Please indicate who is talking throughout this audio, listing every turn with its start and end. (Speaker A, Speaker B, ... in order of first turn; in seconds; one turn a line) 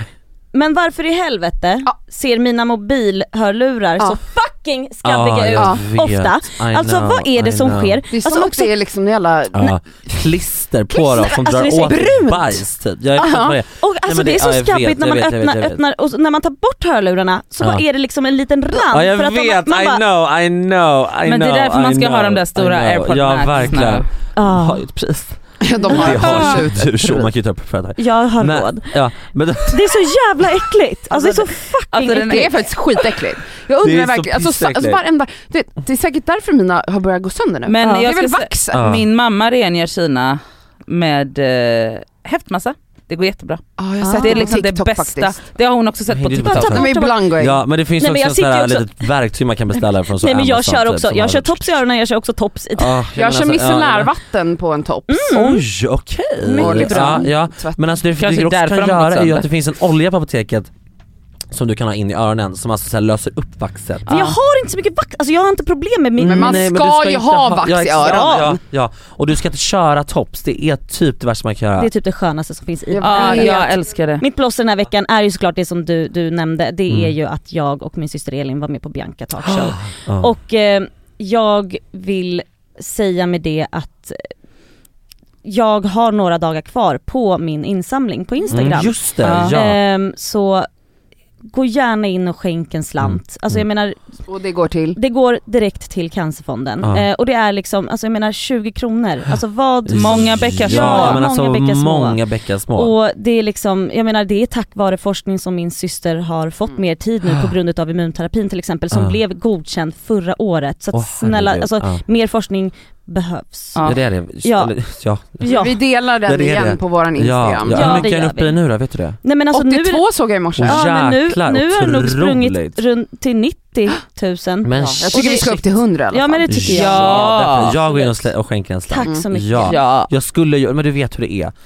Speaker A: 0.5-8.7
Speaker B: 5.0-8.0
Speaker C: 5.5-5.8
Speaker C: 8.1-10.2
Speaker B: 9.5-15.8
Speaker C: 10.9-12.6
Speaker A: 11.2-12.1
Speaker C: 13.2-13.6
Speaker A: 13.8-20.0
Speaker B: 18.7-29.9
Speaker D: 21.2-24.1
Speaker A: 24.4-24.8
Speaker C: 25.6-27.3
Speaker A: 25.9-26.6
Speaker A: 28.0-28.9
Speaker A: 29.7-32.5
Speaker D: 31.1-32.7
Speaker C: 32.1-38.8
Speaker B: 33.8-35.0
Speaker D: 37.6-46.8
Speaker B: 38.7-39.0
Speaker C: 43.8-45.4
Speaker A: 44.0-44.5
Speaker B: 46.1-51.8
Speaker A: 46.4-49.1
Speaker C: 46.7-47.6
Speaker A: 50.1-53.0
Speaker B: 52.8-54.1
Speaker C: 53.1-55.4
Speaker A: 55.1-55.6
Speaker B: 55.3-60.7
Speaker A: 56.4-57.3
Speaker C: 56.6-57.9
Speaker D: 58.2-59.5
Speaker B: 61.5-64.1
Speaker D: 64.0-64.4
Speaker A: 64.1-66.7
Speaker B: 66.2-71.9
Speaker C: 66.2-68.6
Speaker A: 68.0-68.5
Speaker A: 71.8-84.2
Speaker C: 72.9-73.7
Speaker D: 73.0-74.2
Speaker B: 79.4-80.3
Speaker A: 85.4-90.7
Speaker B: 88.5-89.8
Speaker D: 89.2-89.5
Speaker A: 91.5-94.0
Speaker B: 93.0-93.6
Speaker C: 94.3-95.0
Speaker A: 95.0-102.2
Speaker B: 99.9-102.9
Speaker D: 99.9-101.2
Speaker A: 102.7-114.7
Speaker B: 108.9-109.2
Speaker B: 110.9-112.0
Speaker B: 113.8-115.6
Speaker A: 115.4-115.8
Speaker C: 115.4-118.0
Speaker B: 116.2-119.2
Speaker A: 117.7-118.6
Speaker A: 119.2-120.0
Speaker C: 119.5-120.8
Speaker B: 120.6-122.8
Speaker A: 120.6-125.6
Speaker B: 124.6-125.6
Speaker C: 124.8-126.9
Speaker A: 126.1-127.3
Speaker B: 126.5-131.5
Speaker D: 126.7-127.8
Speaker A: 127.9-128.2
Speaker A: 128.9-129.8
Speaker D: 129.6-130.1